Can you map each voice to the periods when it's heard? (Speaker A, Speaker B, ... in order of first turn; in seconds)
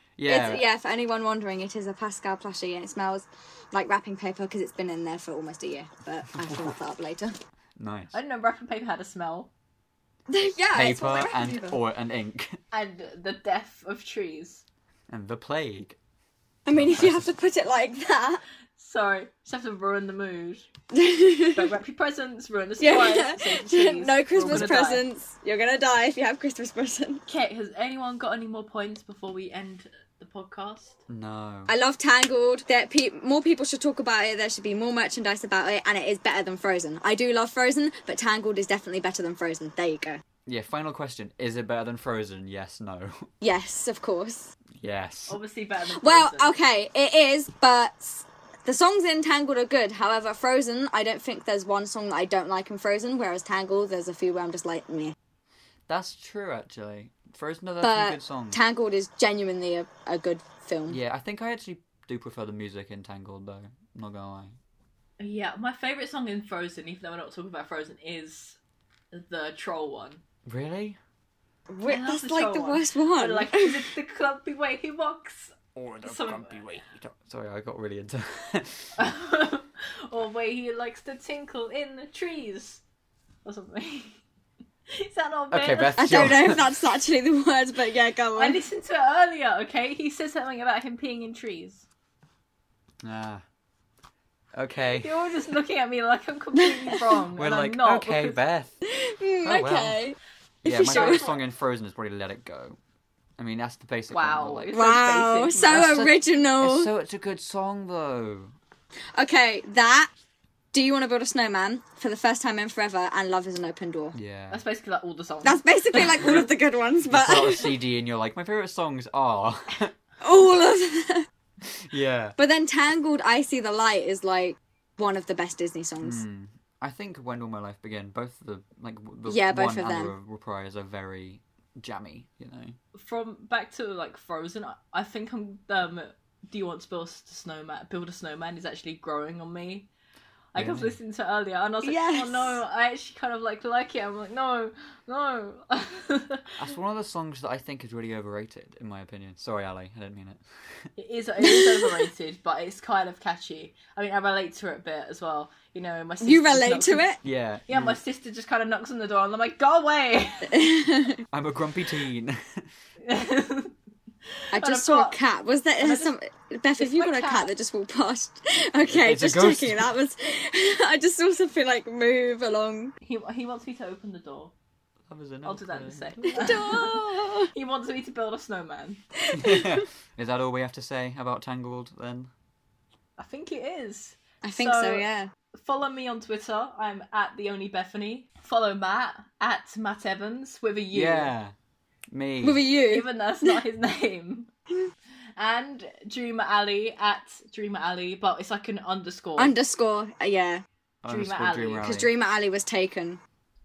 Speaker A: 0.2-0.6, 6.3-6.8, 7.8-8.2, 10.7-12.6, 15.1-16.0, 16.7-17.3, 24.3-24.8, 31.1-31.7, 40.5-43.3, 44.8-45.4, 55.9-58.6, 60.9-64.6, 70.5-71.0, 75.7-78.9, 85.5-86.6, 93.0-93.4, 94.5-95.1, 97.3-98.7, 99.4-100.0, 100.6-102.8, 103.4-104.8, 105.7-108.5, 114.1-114.6, 117.0-119.9, 121.6-122.4, 126.0-132.8, 140.5-141.0, 146.6-150.9, 157.2-158.0, 161.3-162.7, 168.8-169.9, 175.1-176.7, 179.3-182.3, 190.9-191.5, 192.1-192.6, 201.0-202.1
Speaker B: 0.2-7.3, 10.3-11.8, 16.6-18.4, 20.9-21.7, 22.8-27.2, 31.7-40.2, 43.4-44.5, 46.0-55.1, 57.8-61.0, 71.7-73.8, 86.0-88.6, 96.5-97.0, 98.8-101.3, 104.7-106.9, 109.2-110.1, 110.7-114.2, 115.4-117.7, 120.2-121.2, 122.4-126.2, 129.3-130.1, 141.8-142.6, 151.4-152.1, 156.2-157.2, 160.4-161.2, 164.5-172.9, 176.4-177.5, 184.4-185.3, 192.4-193.6, 199.4-200.6, 201.8-203.2
Speaker C: 8.1-9.5, 12.7-14.6, 18.8-20.7, 21.5-25.0, 27.2-31.0, 45.3-46.5, 65.2-68.6, 69.1-70.2, 71.8-76.8, 79.0-82.8, 83.4-84.2, 84.9-86.3, 88.3-91.8, 95.0-98.4, 100.8-101.4, 104.1-106.0, 114.5-116.4, 132.9-139.9, 140.5-146.5, 151.0-157.1, 157.7-160.7, 163.0-163.7, 164.5-165.2, 165.8-166.1, 166.8-167.5, 173.0-174.5, 175.4-176.9, 177.5-179.0, 183.2-191.3, 192.9-194.5, 195.4-199.6, 201.1-201.9